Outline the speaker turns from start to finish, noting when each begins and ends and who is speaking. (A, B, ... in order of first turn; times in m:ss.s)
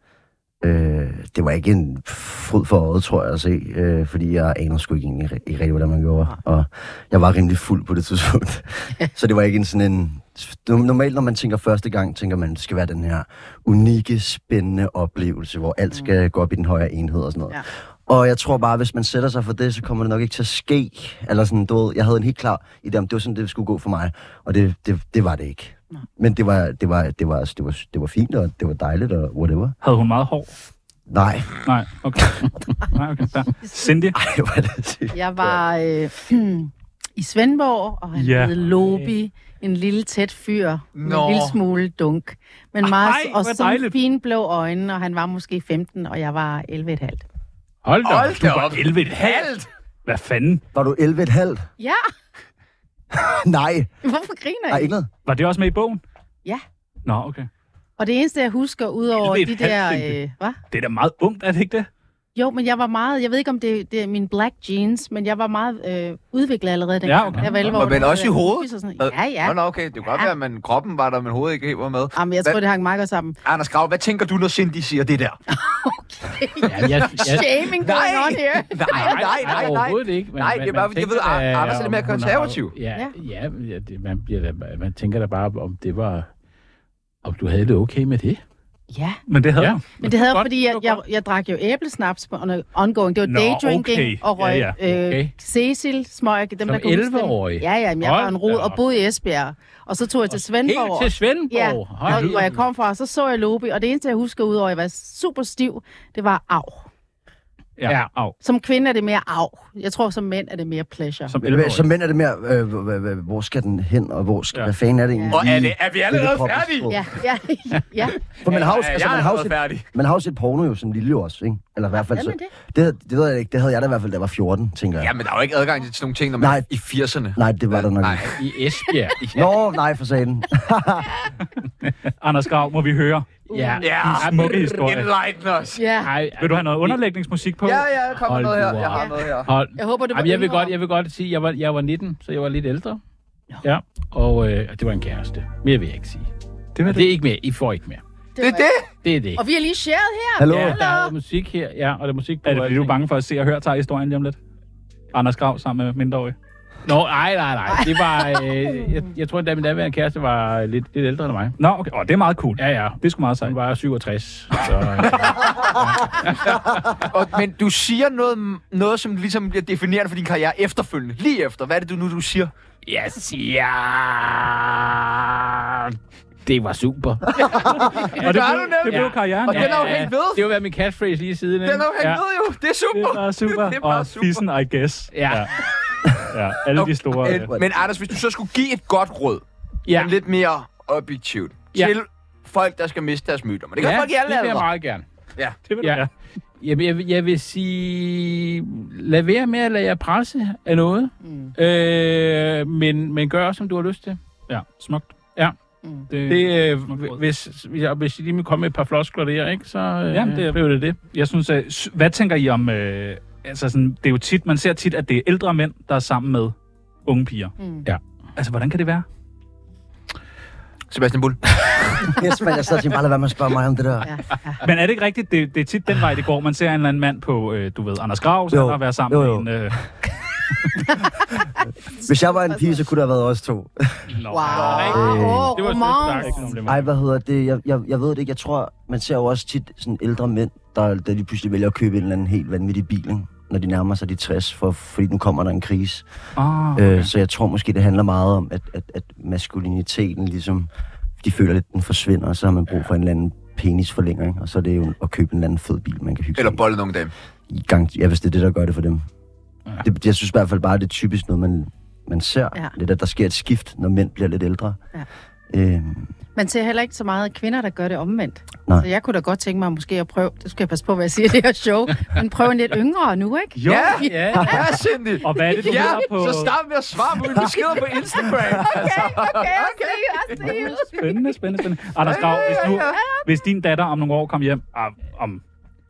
0:00.6-0:29.8 A
0:29.8-0:30.5 B
0:31.1-0:31.6 A
0:31.6-0:34.2 B
0:34.1-0:35.6 A
0:35.1-0:47.2 C
0:38.1-0:38.8 B
0:40.9-0:41.6 D
0:42.8-0:44.0 B
0:47.8-0:48.7 E
0:48.0-0:49.6 D
0:48.3-0:49.5 B
0:50.0-0:50.6 B
0:50.7-0:51.6 A
0:53.1-0:53.9 A
0:54.0-0:54.9 C
0:54.7-0:55.1 A
0:55.2-0:56.0 B
0:57.0-0:57.5 B
0:58.0-1:00.6 C
0:59.2-1:00.2 B
1:00.7-1:01.9 B
1:02.4-1:10.3 C
1:07.0-1:07.8 B
1:07.3-1:07.6 E
1:07.6-1:12.6 D
1:12.1-1:13.4 C
1:13.4-1:15.4 D
1:15.5-1:19.6 C
1:16.6-1:17.6 E
1:17.0-1:22.7 D
1:18.9-1:26.3 E
1:27.2-1:28.4 E
1:28.9-1:29.2 C
1:29.3-1:29.8 B
1:29.6-1:31.0 E
1:30.0-1:46.9 C
1:33.2-1:34.8 B
1:34.8-1:35.3 E
1:36.6-1:38.8 E
1:40.3-1:42.6 E
1:42.1-1:42.4 B
1:47.8-1:48.3 B
1:48.4-1:51.3 C
1:51.3-1:51.8 B
1:51.4-1:57.0 A
1:55.1-1:55.4 C
1:55.3-1:57.0 D
1:56.9-1:58.2 C
1:58.4-2:05.2 A
1:58.4-1:59.8 D
2:02.1-2:02.5 C
2:05.0-2:08.4 D
2:06.4-2:06.6 A
2:07.3-2:08.3 A
2:08.4-2:09.2 E
2:09.1-2:09.5 D
2:09.3-2:11.1 A
2:12.2-2:13.3 B
2:13.5-2:13.9 C
2:13.5-2:14.7 E
2:13.8-2:15.8 D
2:14.0-2:15.1 B
2:15.8-2:16.1 C
2:16.0-2:17.0 E
2:16.4-2:17.9 B
2:17.6-2:19.5 D
2:18.2-2:23.0 E
2:19.7-2:20.7 C
2:23.6-2:26.3 E
2:26.7-2:27.1 B
2:26.8-2:28.0 E
2:28.4-2:28.7 C
2:28.4-2:28.9 D
2:29.0-2:29.4 E
2:29.3-2:31.1 C
2:30.4-2:30.8 A
2:30.5-2:30.8 B
2:30.6-2:33.0 E
2:32.4-2:34.4 B
2:35.1-2:36.4 B
2:36.8-2:41.6 E
2:41.6-2:43.6 B
2:42.6-2:46.6 E
2:45.0-2:45.4 B
2:46.9-2:52.5 D
2:52.8-3:02.2 E
2:57.4-3:00.5 D
2:57.5-2:59.9 B
3:01.6-3:04.4 D
3:02.9-3:05.5 B
3:05.1-3:05.5 E
3:06.2-3:07.5 B
3:06.8-3:14.7 D
3:09.9-3:10.1 E
3:13.8-3:15.0 E
3:15.4-3:15.6 D
3:15.7-3:16.1 B
3:15.8-3:16.1 E
3:16.6-3:24.2 E
3:21.2-3:21.5 C
3:24.5-3:25.1 B
3:25.8-3:26.1 C
3:26.1-3:27.2 B
3:26.2-3:31.0 E
3:30.1-3:36.5 B
3:37.0-3:37.5 B
3:37.6-3:37.8 C
3:38.4-3:39.0 B
3:40.9-3:42.2 D
3:42.0-3:44.1 A
3:44.0-3:44.6 C
3:44.6-3:49.8 B
3:48.5-3:49.5 A
3:51.9-3:52.8 C
3:52.0-3:54.1 A
3:54.1-3:55.0 B
3:54.3-3:56.4 C
3:54.5-3:56.7 E
3:54.5-3:54.8 D
3:54.9-3:55.5 A
3:56.2-3:56.8 B
3:56.6-4:06.0 A
4:06.4-4:07.1 B
4:06.7-4:10.7 A
4:11.2-4:16.6 A
4:16.4-4:17.1 D
4:17.5-4:19.0 A
4:19.8-4:24.8 A
4:25.5-4:26.1 A
4:26.3-4:34.8 C
4:33.6-4:34.0 B
4:33.7-4:40.7 D
4:34.0-4:34.6 E
4:35.2-4:36.5 B
4:35.3-4:36.0 C
4:38.6-4:41.2 C
4:41.0-4:45.4 B
4:42.0-4:43.0 D
4:42.3-4:43.2 C